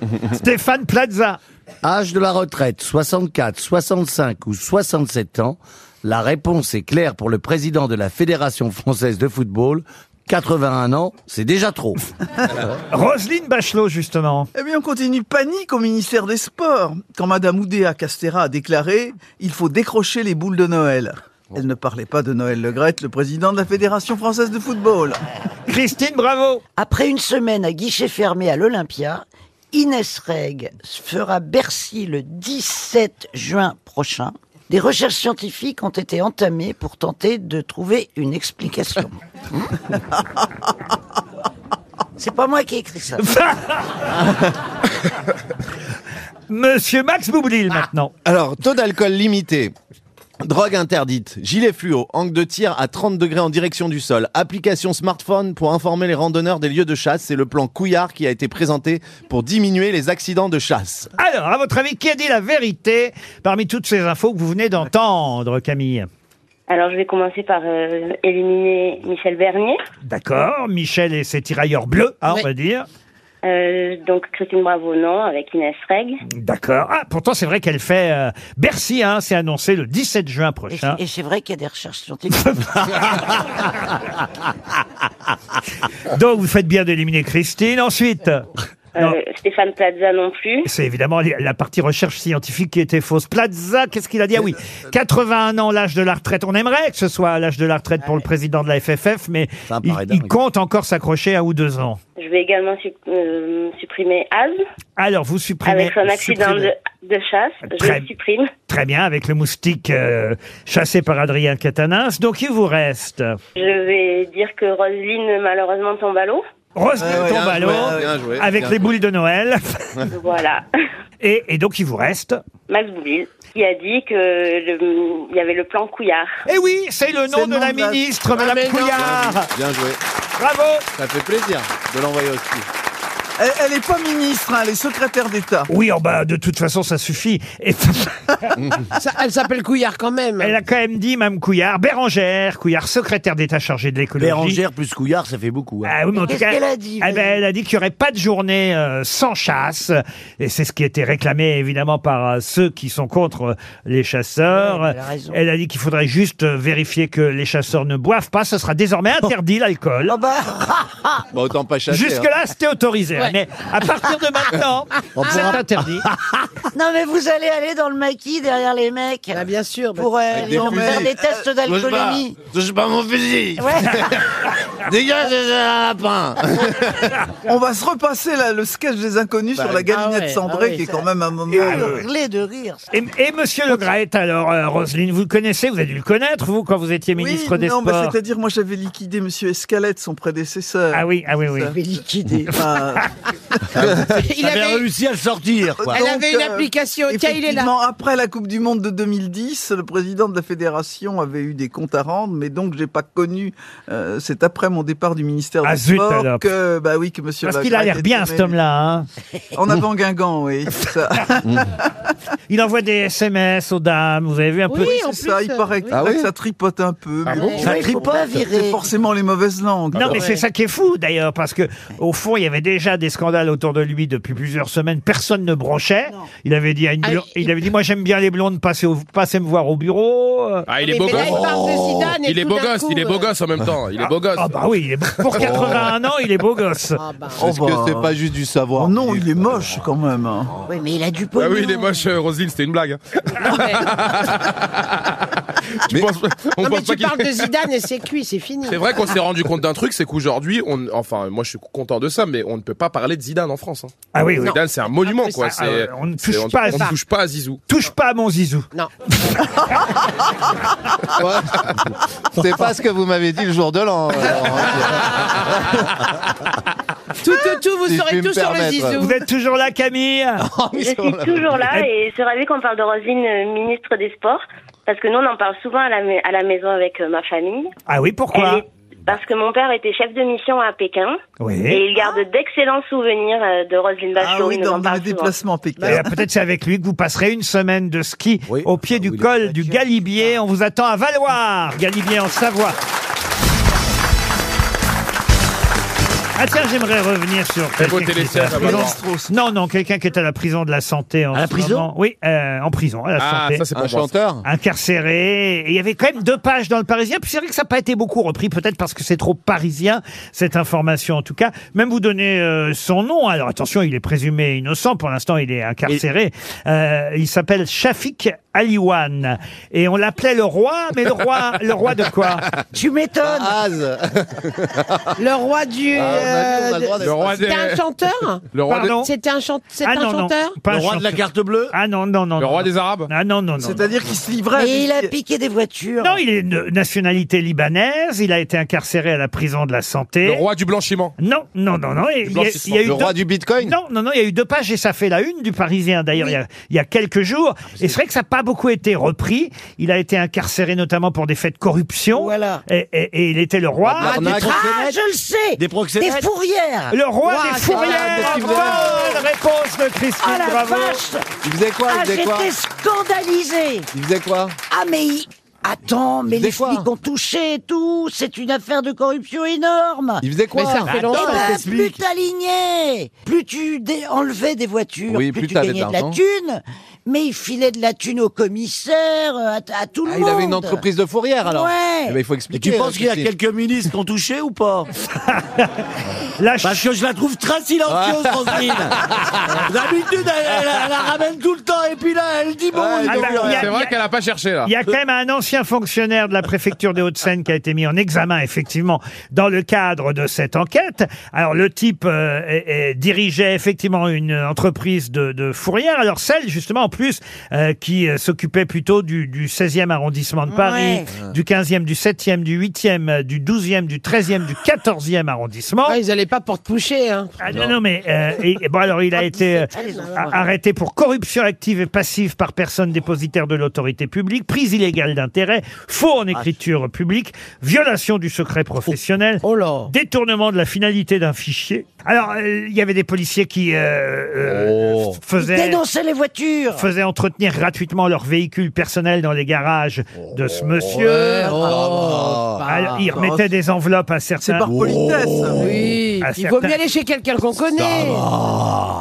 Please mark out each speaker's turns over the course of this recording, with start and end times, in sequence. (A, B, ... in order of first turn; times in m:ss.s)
0:00.3-0:01.4 A
0:01.8-0:12.0 B
0:12.9-0:14.5 A
0:14.6-0:25.2 C
0:25.7-0:26.6 A
0:26.8-0:39.1 D
0:42.2-0:43.2 D
0:43.2-0:43.8 A
0:46.5-0:48.1 A
0:48.2-0:49.7 E
0:50.4-1:01.1 E
1:01.2-1:06.1 A
1:06.7-1:09.8 F
1:10.0-1:12.9 A
1:13.4-1:16.2 F
1:16.3-1:21.0 A
1:20.7-1:23.1 D
1:26.1-1:28.5 A
1:29.0-1:30.7 F
1:30.6-1:42.0 A
1:39.7-1:40.4 B
1:42.2-1:44.6 F
1:45.0-1:46.7 A
1:45.6-1:48.5 F
1:47.7-1:48.1 A
1:48.7-1:53.4 A
1:53.6-1:56.4 F
1:56.8-1:59.9 A
1:57.0-1:58.1 C
1:57.0-1:58.9 E
2:00.1-2:00.7 F
2:01.2-2:02.4 A
2:02.7-2:06.3 F
2:06.5-2:09.5 A
2:07.3-2:08.0 C
2:08.4-2:09.1 G
2:09.0-2:10.0 E
2:10.4-2:10.9 A
2:11.0-2:12.7 E
2:13.4-2:15.7 C
2:15.7-2:18.5 A
2:19.0-2:20.6 G
2:20.4-2:24.6 A
2:24.2-2:26.0 B
2:25.8-2:40.2 A
2:26.2-2:27.4 D
2:34.5-2:35.4 D
2:40.1-2:41.2 D
2:41.3-2:42.3 E
2:41.9-2:46.1 A
2:45.2-2:46.1 B
2:45.3-2:45.5 G
2:46.7-2:52.4 D
2:49.3-2:50.2 G
2:50.3-2:51.2 E
2:50.5-2:51.4 C
2:51.7-2:54.2 E
2:53.6-2:54.0 D
2:54.9-2:57.1 E
2:57.5-3:02.0 C
2:59.8-3:01.0 G
3:01.5-3:02.9 D
3:01.6-3:02.0 A
3:02.9-3:08.2 A
3:07.2-3:11.8 C
3:10.9-3:11.7 A
3:11.7-3:12.7 D
3:12.4-3:13.8 C
3:14.1-3:14.9 G
3:14.2-3:16.0 B
3:15.8-3:28.6 C
3:15.9-3:17.7 G
3:25.6-3:26.5 A
3:27.4-3:29.1 A
3:29.6-3:31.9 C
3:32.5-3:34.9 A
3:34.7-3:36.1 G
3:34.8-3:40.3 C
3:35.9-3:36.3 E
3:37.3-3:37.5 H
3:37.3-3:37.7 G
3:37.6-3:38.8 D
3:37.6-3:38.2 B
3:39.9-3:50.7 A
3:47.0-3:47.5 G
3:50.7-3:51.6 H
3:50.8-3:53.3 G
3:51.2-3:51.9 E
3:52.2-3:54.6 H
3:54.4-3:57.0 A
3:55.4-3:55.9 E
3:57.0-3:57.5 G
3:57.4-3:59.8 E
3:57.4-3:58.1 C
3:58.8-4:00.5 C
4:00.7-4:02.0 D
4:01.4-4:05.2 H
4:03.4-4:03.9 G
4:05.9-4:07.4 H
4:06.6-4:08.8 G
4:08.6-4:17.6 H
4:14.1-4:14.6 A
4:15.1-4:15.4 G
4:15.4-4:16.9 A
4:17.7-4:18.7 A
4:21.2-4:25.8 E
4:27.2-4:29.2 G
4:27.8-4:29.0 E
4:29.0-4:30.4 A
4:30.4-4:31.8 E
4:30.7-4:37.7 F
4:37.9-4:38.6 A
4:38.3-4:41.2 F
4:41.4-4:41.8 A
4:41.7-4:45.3 F
4:44.2-4:46.1 C
4:45.8-4:52.8 A
4:48.5-4:49.8 B
4:56.4-5:03.6 A
4:57.8-4:59.0 H
4:58.5-4:59.3 C
5:01.3-5:01.9 B
5:03.2-5:04.1 H
5:03.8-5:04.4 E
5:04.4-5:22.4 A
5:22.7-5:23.5 D
5:23.2-5:25.1 E
5:25.2-5:28.4 G
5:25.9-5:27.4 E
5:27.0-5:27.8 H
5:28.5-5:28.9 H
5:28.7-5:29.1 A
5:29.0-5:30.6 G
5:29.8-5:33.8 A
5:30.7-5:31.7 B
5:32.4-5:33.1 H
5:33.6-5:35.1 C
5:34.5-5:36.2 D
5:36.0-5:40.4 A
5:40.2-5:41.2 H
5:41.2-5:54.6 A
5:42.3-5:42.6 H
5:42.3-5:43.8 E
5:52.1-5:52.6 D
5:53.9-5:54.8 E
5:54.0-5:54.8 G
5:54.2-5:57.0 D
5:55.6-5:56.3 B
5:56.9-6:01.0 A
5:57.2-5:59.0 G
5:57.8-5:59.1 E
6:00.2-6:01.3 D
6:01.4-6:02.5 E
6:01.8-6:03.9 D
6:03.9-6:04.6 E
6:04.7-6:10.2 D
6:06.3-6:06.9 E
6:10.2-6:11.4 E
6:10.5-6:11.6 G
6:10.9-6:12.0 B
6:10.9-6:20.8 D
6:15.1-6:16.2 E
6:20.1-6:23.3 E
6:21.4-6:22.2 D
6:22.5-6:24.9 B
6:25.3-6:25.7 A
6:26.4-6:26.8 A
6:26.6-6:29.0 B
6:27.9-6:28.9 E
6:29.5-6:33.7 B
6:32.7-6:33.3 E
6:33.1-6:34.0 A
6:33.3-6:34.7 H
6:34.6-6:56.0 A
6:50.5-6:51.2 D
6:55.9-6:57.4 G
6:57.4-7:15.8 A
6:59.2-7:00.4 D
6:59.8-7:00.1 G
7:09.4-7:09.9 G
7:14.4-7:15.2 E
7:15.4-7:16.9 D
7:16.7-7:21.7 A
7:20.9-7:23.1 G
7:21.0-7:22.6 E
7:22.6-7:24.7 A
7:23.1-7:23.5 C
7:24.4-7:25.7 C
7:24.7-7:25.6 B
7:25.6-7:28.2 G
7:26.2-7:26.8 A
7:27.8-7:28.6 B